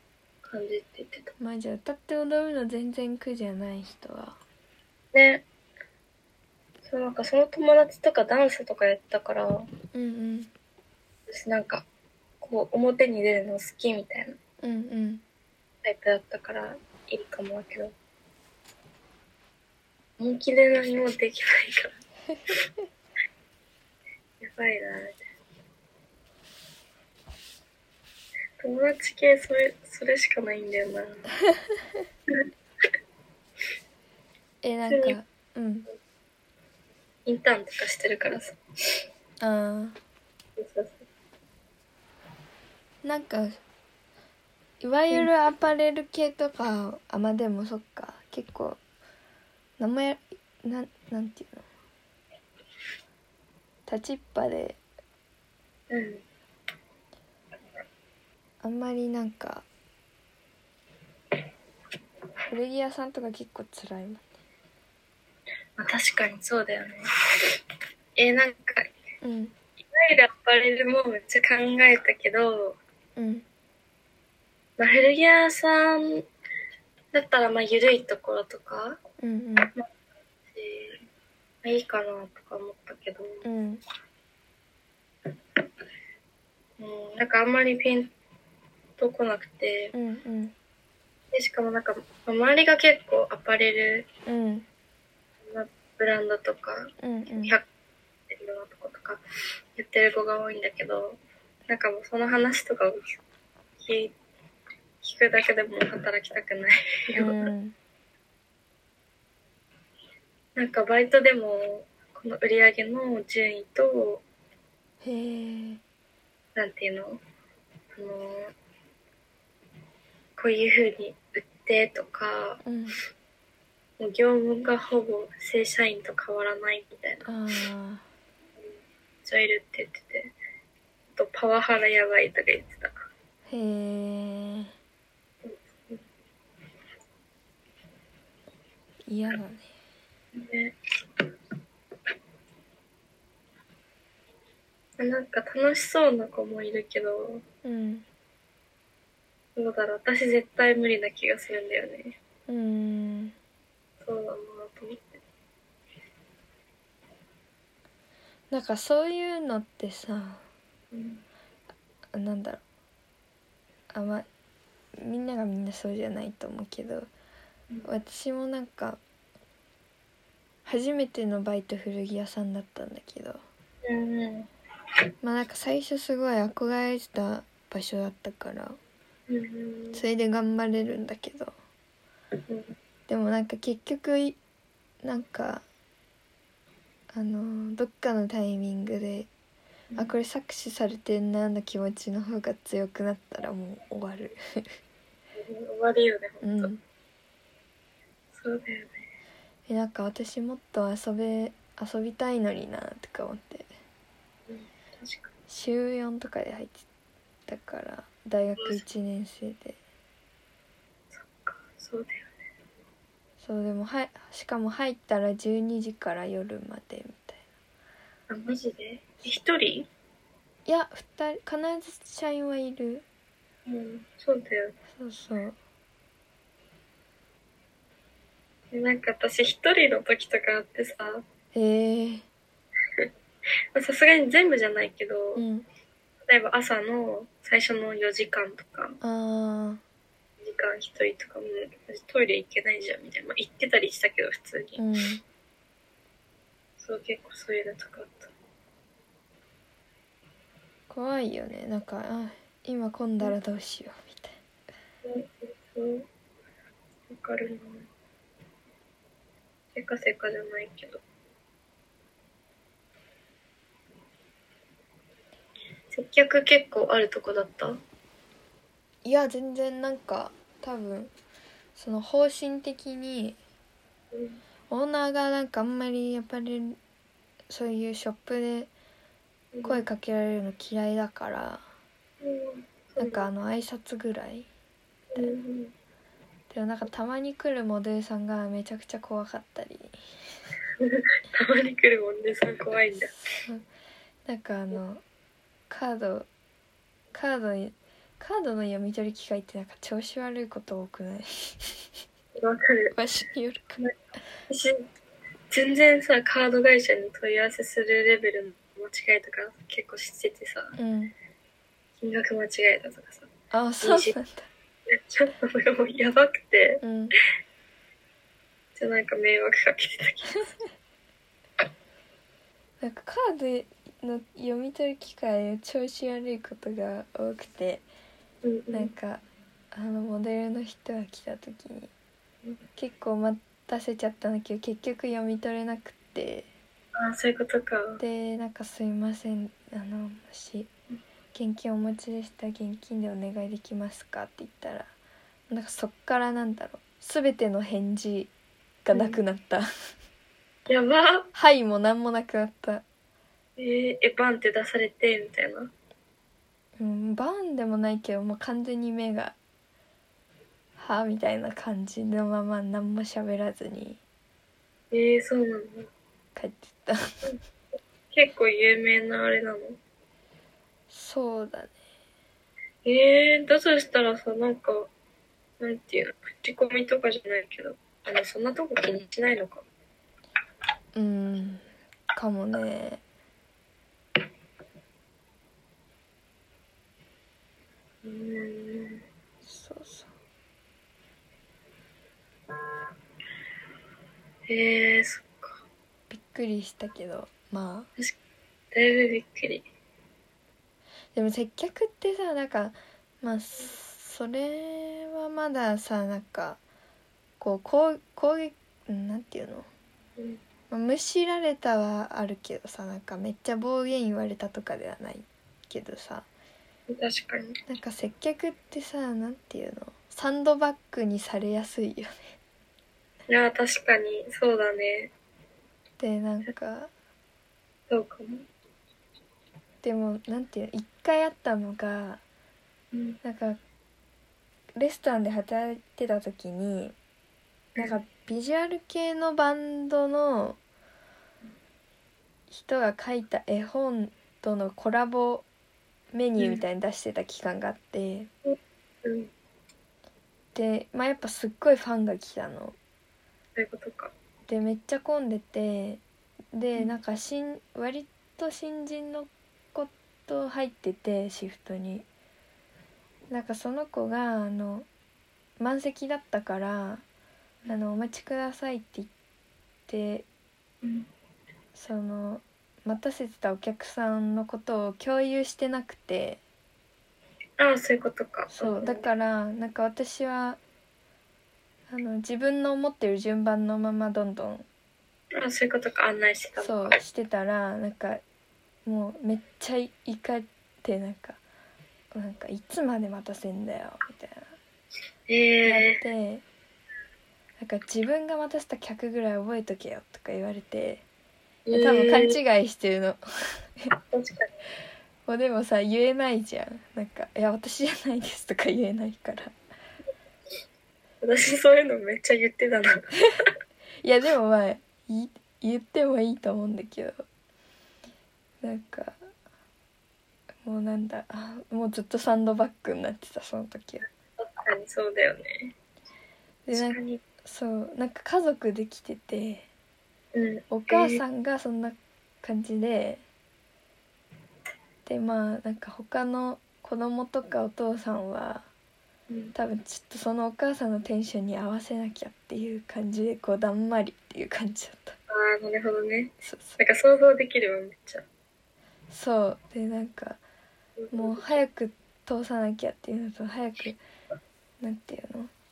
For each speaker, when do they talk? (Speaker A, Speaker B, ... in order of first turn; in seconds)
Speaker A: 0.4-1.3, 5.1-5.4, 6.8-9.7, 11.3-11.8, 12.4-14.4, 15.8-17.9, 20.2-22.0, 24.4-25.2, 28.6-31.2, 34.9-35.2, 37.2-39.0, 40.6-41.0, 55.9-56.2, 65.8-67.6, 68.2-68.9, 69.8-72.8, 74.8-76.2, 77.1-79.0, 80.5-81.0, 81.6-83.4, 86.8-88.1, 89.0-89.9, 91.3-94.1, 95.4-97.6, 98.3-99.2, 99.7-103.2, 103.8-104.1, 105.0-107.5, 110.5-114.2, 116.5-117.2, 117.9-118.5, 120.4-122.6, 124.0-127.3, 129.2-130.3, 131.1-132.9, 135.4-136.0, 140.3-141.2, 145.0-147.4, 149.6-152.2, 154.0-155.2, 160.9-161.2, 173.8-174.5, 179.3-180.0, 182.5-182.7, 195.3-196.7, 198.3-199.1, 204.5-205.3, 208.5-208.8, 211.1-212.3, 218.3-219.9, 223.7-224.7, 228.7-231.2, 233.7-235.4, 236.2-239.0, 240.4-244.8, 246.8-248.3, 255.0-256.1, 257.1-257.9, 259.7-261.0, 265.9-267.8, 274.1-274.4, 279.5-279.8, 282.2-283.3, 285.1-285.7, 290.8-293.1, 302.3-302.9, 304.5-304.8, 305.5-310.8, 312.0-313.3, 313.8-314.1, 314.9-316.8, 318.7-320.5, 328.4-328.9, 336.9-338.0, 348.9-349.2, 350.7-351.3, 353.6-355.7, 364.9-365.9, 368.1-369.8, 372.8-374.9, 375.6-379.6, 388.0-389.0, 394.5-395.6, 398.7-399.6, 416.9-417.5, 423.3-425.1, 427.9-428.5, 432.9-433.2, 448.4-449.3, 453.6-454.1, 470.8-471.1, 477.6-479.1, 485.3-487.0, 495.3-496.0, 501.6-502.4, 504.1-504.5, 511.2-513.1, 524.4-525.7, 526.7-527.2, 530.3-531.2, 539.3-539.5, 545.3-548.2, 551.0-551.6
Speaker B: 1.4-4.4, 9.9-10.5, 14.6-15.2, 34.6-35.9, 39.4-40.0, 43.0-43.6, 44.8-48.8, 49.8-51.7, 53.9-54.8, 58.6-59.6, 62.5-64.3, 69.2-69.5, 73.2-73.5, 79.2-79.7, 83.4-83.8, 89.9-90.5, 94.2-94.7, 97.0-97.5, 107.1-107.7, 115.0-115.8, 122.6-123.0, 127.2-128.0, 133.5-134.7, 139.1-139.7, 147.6-148.0, 152.5-153.3, 158.5-160.4, 162.1-162.6, 163.9-164.2, 165.0-167.1, 167.8-169.0, 170.7-173.4, 175.2-178.8, 179.9-181.5, 183.1-184.4, 185.0-185.6, 187.1-189.3, 190.0-194.7, 196.4-196.8, 199.7-203.7, 205.5-206.8, 207.5-209.8, 213.4-217.4, 220.7-223.0, 225.0-225.6, 231.5-232.2, 235.3-235.7, 239.0-239.8, 244.8-245.2, 250.9-254.4, 269.0-271.1, 271.8-273.4, 274.7-276.8, 277.5-278.7, 279.6-281.6, 283.0-284.5, 286.5-289.9, 292.9-293.6, 294.2-295.0, 295.7-296.3, 297.1-301.9, 302.9-303.8, 310.8-311.1, 313.5-314.5, 316.8-317.1, 322.8-327.8, 328.7-331.9, 332.8-336.5, 338.0-340.7, 341.3-344.9, 345.5-348.3, 348.8-349.7, 351.3-352.8, 356.8-359.4, 360.8-364.0, 366.4-367.2, 370.9-371.7, 380.9-383.0, 389.4-390.1, 396.1-397.9, 401.1-406.6, 407.4-409.7, 410.7-416.3, 417.7-422.3, 426.0-426.9, 429.8-432.2, 433.2-433.6, 434.8-436.9, 437.8-440.6, 442.5-445.4, 446.1-448.3, 450.5-452.8, 454.5-456.0, 456.5-462.1, 463.3-464.9, 465.6-467.0, 467.7-469.1, 469.9-470.2, 471.7-476.4, 478.5-480.6, 481.9-484.6, 486.6-488.2, 488.9-491.4, 492.1-494.5, 495.6-496.4, 497.6-501.0, 501.7-503.9, 505.3-509.5, 514.0-517.2, 518.6-519.3, 520.6-524.0, 526.6-529.6, 530.7-533.2, 535.0-538.7, 539.5-545.2, 546.4-546.8, 549.1-550.4, 551.1-554.0, 554.8-555.5